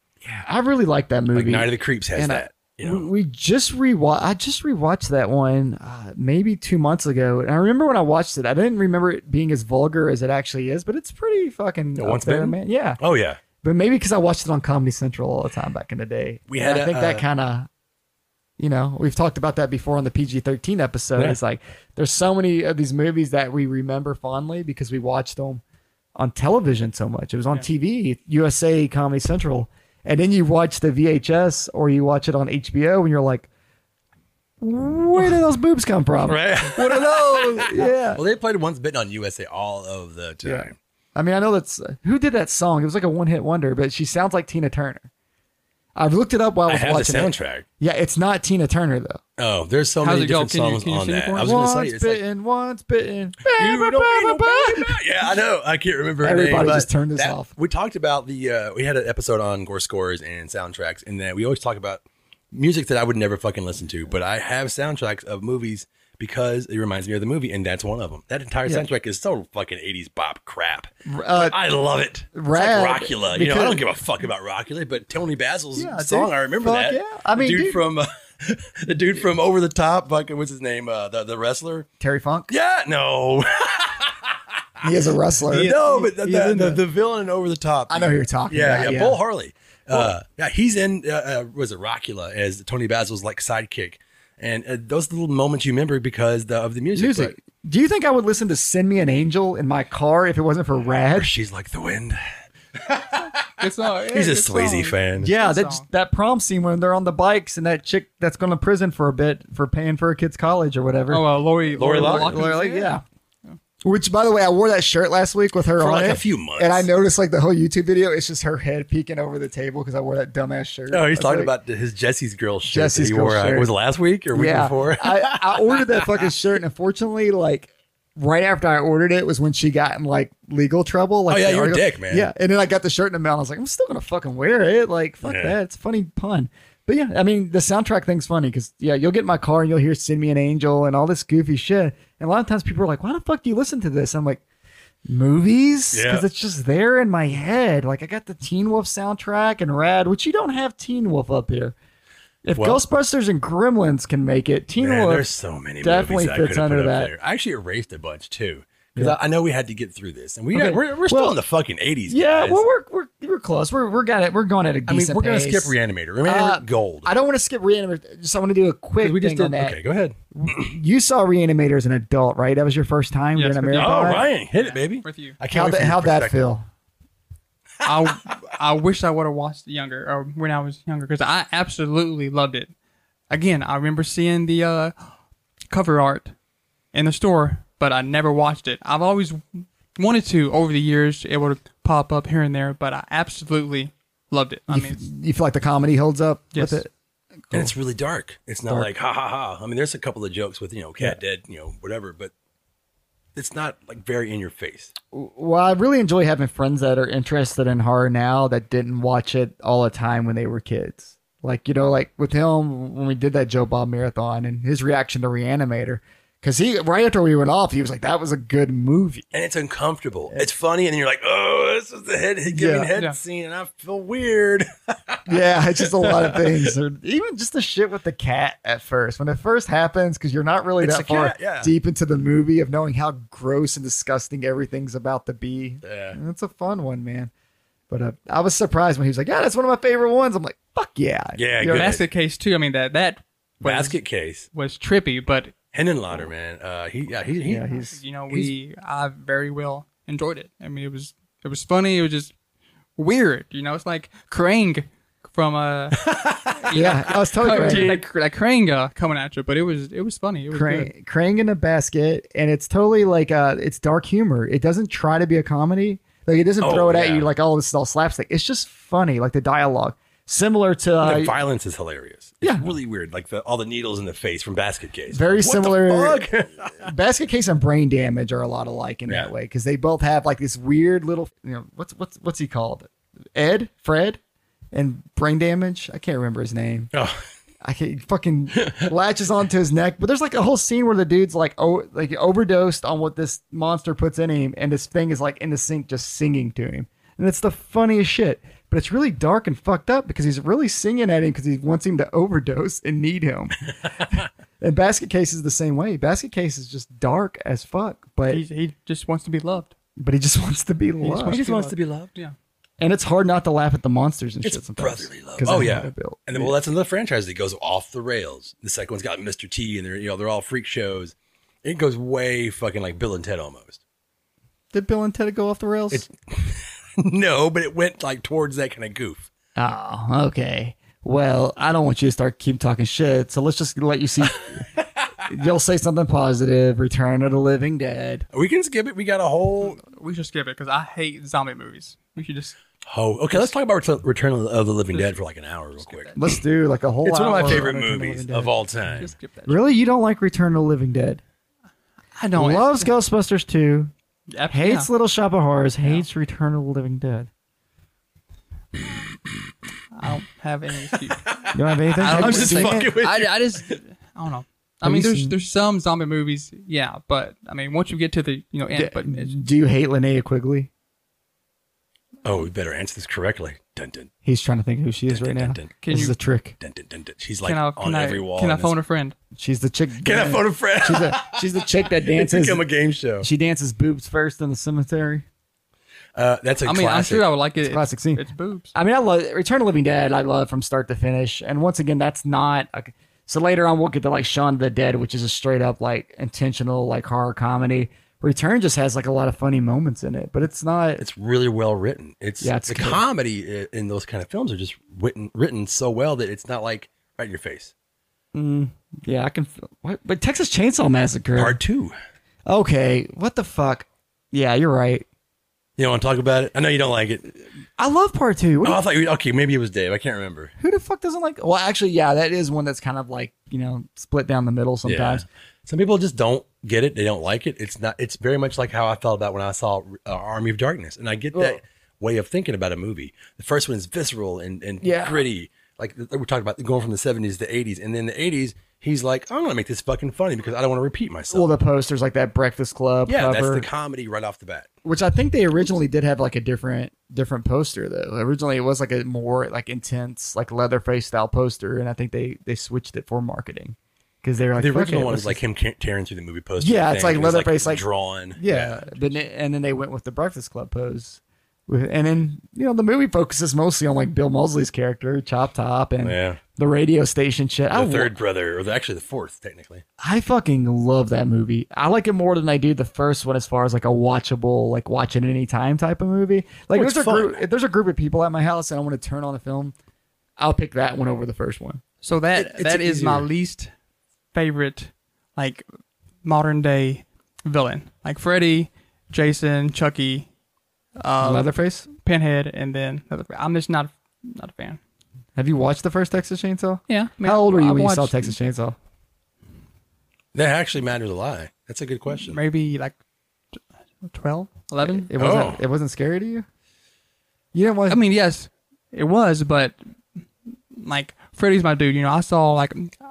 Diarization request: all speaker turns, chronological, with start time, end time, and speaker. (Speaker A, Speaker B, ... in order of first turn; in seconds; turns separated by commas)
Speaker A: 0.2-13.0, Speaker B: 1.3-3.1, Speaker B: 12.0-13.4, Speaker A: 13.6-17.7, Speaker B: 16.5-17.2, Speaker A: 18.6-25.6, Speaker A: 26.1-33.5, Speaker A: 34.6-38.2, Speaker B: 36.2-40.7, Speaker A: 40.4-45.1, Speaker A: 46.0-49.2, Speaker B: 46.7-47.6, Speaker B: 49.4-52.2, Speaker C: 50.0-51.5, Speaker A: 51.3-55.0, Speaker B: 53.5-81.9, Speaker A: 56.2-57.5, Speaker A: 71.1-71.6, Speaker A: 72.3-73.8, Speaker A: 75.7-77.8, Speaker A: 82.0-82.5, Speaker B: 82.5-84.9, Speaker A: 84.8-86.8, Speaker B: 85.5-97.3, Speaker A: 87.9-89.2, Speaker A: 96.9-101.3, Speaker B: 101.1-102.2, Speaker B: 102.7-105.3, Speaker C: 103.6-105.8, Speaker A: 105.2-111.2, Speaker C: 111.1-113.5, Speaker A: 111.8-113.0, Speaker B: 111.8-112.4, Speaker A: 113.8-121.5, Speaker B: 115.8-116.9, Speaker B: 120.9-126.3, Speaker A: 122.7-123.7, Speaker A: 124.3-144.4, Speaker B: 131.3-132.3, Speaker B: 135.2-135.5, Speaker A: 145.1-151.8, Speaker B: 145.9-146.2, Speaker A: 152.4-155.3, Speaker B: 152.5-152.8, Speaker B: 154.8-162.6, Speaker A: 155.8-157.1, Speaker A: 160.5-161.3, Speaker A: 162.1-169.8, Speaker B: 164.9-167.1, Speaker B: 169.0-170.7, Speaker A: 170.3-174.2, Speaker C: 173.3-175.4, Speaker B: 173.7-176.3, Speaker A: 175.5-176.6, Speaker C: 177.8-182.7, Speaker C: 183.3-184.9, Speaker C: 185.7-186.3, Speaker C: 186.9-195.0, Speaker A: 194.7-196.9, Speaker C: 196.5-196.8, Speaker B: 197.5-202.3, Speaker B: 203.3-204.9, Speaker A: 205.1-219.3, Speaker B: 219.3-226.7, Speaker A: 222.5-222.9, Speaker A: 225.3-237.3, Speaker B: 230.8-231.7, Speaker B: 235.8-236.2, Speaker A: 237.9-241.9, Speaker B: 241.3-242.0, Speaker C: 241.7-244.0, Speaker B: 243.6-244.5, Speaker C: 244.5-245.5, Speaker B: 245.7-247.6, Speaker A: 247.4-248.5, Speaker C: 247.9-252.3, Speaker C: 253.0-256.0, Speaker B: 256.0-256.8, Speaker C: 256.5-260.9, Speaker A: 256.7-258.0, Speaker B: 257.4-258.0, Speaker A: 260.5-271.3, Speaker B: 266.6-267.3, Speaker B: 271.0-276.9, Speaker A: 272.4-272.7, Speaker A: 275.1-284.2, Speaker A: 284.7-286.9, Speaker B: 286.9-287.2, Speaker A: 287.6-308.4, Speaker B: 288.6-288.9, Speaker C: 308.3-309.7, Speaker A: 310.0-311.4, Speaker B: 311.0-312.1, Speaker C: 311.1-312.3, Speaker A: 312.8-316.5, Speaker B: 314.4-323.8, Speaker A: 324.7-326.0, Speaker B: 325.9-329.3, Speaker A: 329.6-334.7, Speaker A: 335.2-338.2, Speaker B: 338.3-339.8, Speaker C: 339.6-342.6, Speaker B: 342.9-346.4, Speaker C: 345.8-346.2, Speaker A: 346.2-348.5, Speaker B: 347.0-349.1, Speaker C: 349.0-349.6, Speaker A: 349.5-351.2, Speaker C: 352.2-352.9, Speaker A: 352.4-353.9, Speaker C: 354.3-354.9, Speaker A: 354.5-357.3, Speaker C: 359.9-361.4, Speaker B: 361.2-363.8, Speaker A: 361.5-362.9, Speaker C: 362.0-369.3, Speaker A: 364.8-365.4, Speaker A: 368.7-370.7, Speaker B: 372.2-374.1, Speaker A: 374.2-376.6, Speaker B: 375.1-375.8, Speaker C: 375.8-376.1, Speaker B: 376.6-378.7, Speaker C: 377.4-379.1, Speaker A: 379.3-382.6, Speaker B: 380.0-383.3, Speaker A: 383.2-385.2, Speaker B: 386.1-387.2, Speaker C: 386.6-388.7, Speaker A: 387.6-401.0, Speaker B: 401.0-407.7, Speaker A: 402.4-403.0, Speaker A: 408.3-411.6, Speaker B: 411.4-411.9, Speaker A: 412.4-415.1, Speaker B: 415.8-417.3, Speaker A: 417.8-418.8, Speaker B: 418.6-420.5, Speaker A: 420.6-425.2, Speaker B: 424.8-441.6, Speaker A: 434.8-435.2, Speaker A: 441.3-443.7, Speaker B: 443.1-444.7, Speaker A: 444.8-455.4, Speaker B: 454.6-458.9, Speaker A: 456.6-457.8, Speaker A: 458.4-468.1, Speaker B: 466.0-466.4, Speaker B: 467.7-469.8, Speaker A: 470.0-479.7, Speaker B: 476.7-477.3, Speaker A: 480.4-481.8, Speaker C: 482.0-483.7, Speaker B: 482.4-483.3, Speaker C: 484.3-485.6, Speaker C: 486.2-490.3, Speaker C: 491.0-494.8, Speaker A: 491.2-491.9, Speaker A: 495.4-498.8, Speaker C: 496.9-498.3, Speaker B: 500.3-502.4, Speaker C: 502.1-502.9, Speaker C: 504.0-505.1, Speaker A: 504.9-506.4, Speaker B: 505.2-505.6, Speaker A: 507.5-508.0, Speaker C: 507.9-509.8, Speaker C: 510.7-513.0